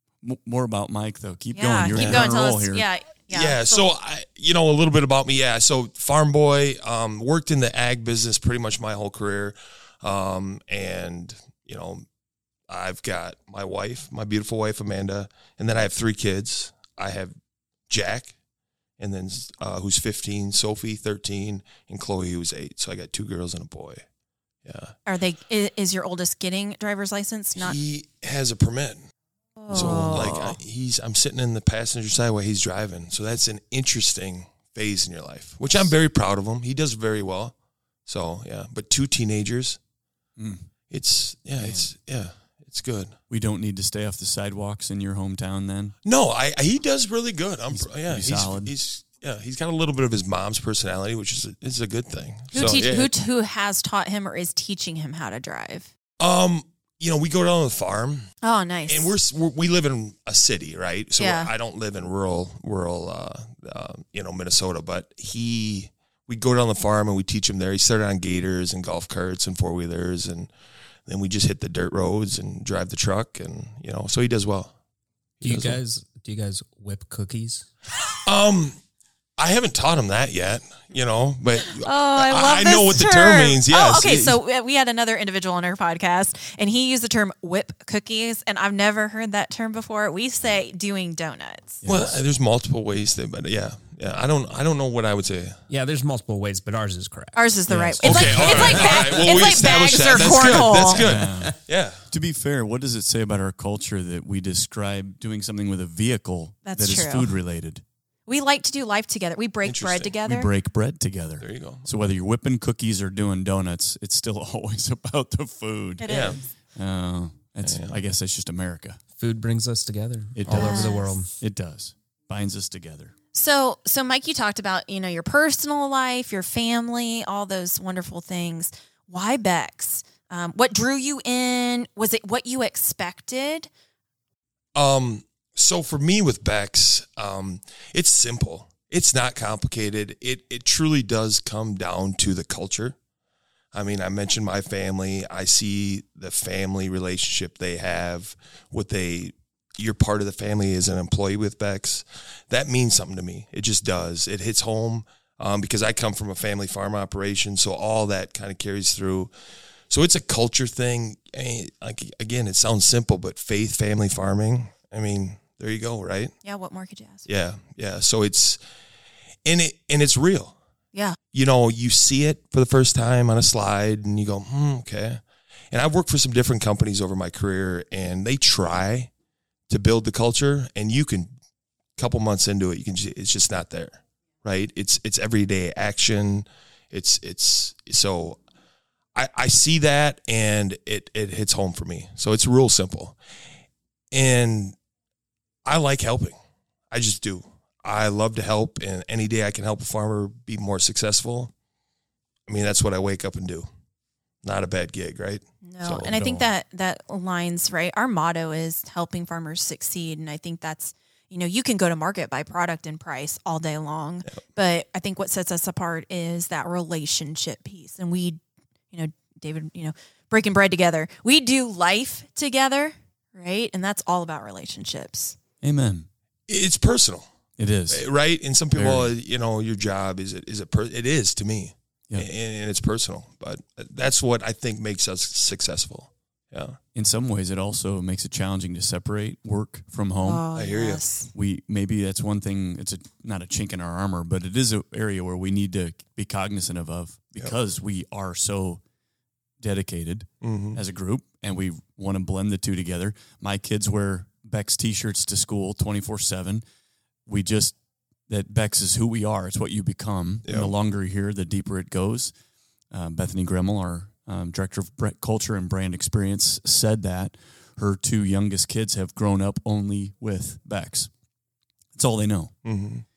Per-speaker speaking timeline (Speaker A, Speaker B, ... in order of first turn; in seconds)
Speaker A: 0.2-2.8, 40.4-40.7, 41.6-41.9, 43.3-45.9, 47.7-48.7, 91.8-92.2, 97.7-99.1, 100.2-101.5, 102.1-107.8, 110.2-116.1, 116.8-119.0, 120.3-123.1, 206.1-206.5, 225.6-226.1, 227.6-228.0, 228.7-229.1, 236.9-240.4, 241.3-248.8, 249.6-256.6, 257.3-257.7, 258.3-262.3, 262.9-271.1, 271.9-272.5
Speaker B: 1.5-3.8, 25.1-27.7, 29.6-30.6, 52.5-55.9, 58.4-59.1, 61.2-61.5, 81.7-91.8, 97.3-101.0, 106.7-107.4, 108.3-110.5, 116.0-116.4, 120.5-121.1, 123.3-133.7, 166.4-167.2, 205.6-218.4, 218.9-225.3, 240.2-241.3
Speaker C: 1.9-2.3, 3.3-12.0, 12.7-17.3, 17.9-18.3, 19.0-24.0, 24.6-24.9, 27.5-29.0, 29.7-37.5, 38.0-39.8, 40.9-43.1, 46.0-53.1, 56.2-58.2, 58.9-70.5, 71.0-74.7, 75.4-75.8, 78.2-78.8, 79.4-84.4, 91.8-95.6, 98.0-102.0, 109.6-110.1, 111.4-111.9, 116.0-116.4, 117.6-118.0, 134.7-142.9, 143.7-159.3, 159.9-166.3, 167.2-168.6, 169.4-170.6, 171.3-179.1, 179.7-181.3, 181.9-188.4, 189.1-193.2, 194.1-194.7, 195.6-196.3, 196.9-201.5, 202.5-203.7, 204.4-206.2, 226.5-227.3, 227.9-236.8, 240.5-241.0, 250.4-250.8, 260.4-260.7, 272.6-273.0
Speaker D: 75.4-77.7, 95.7-97.4, 98.3-99.2, 119.2-121.3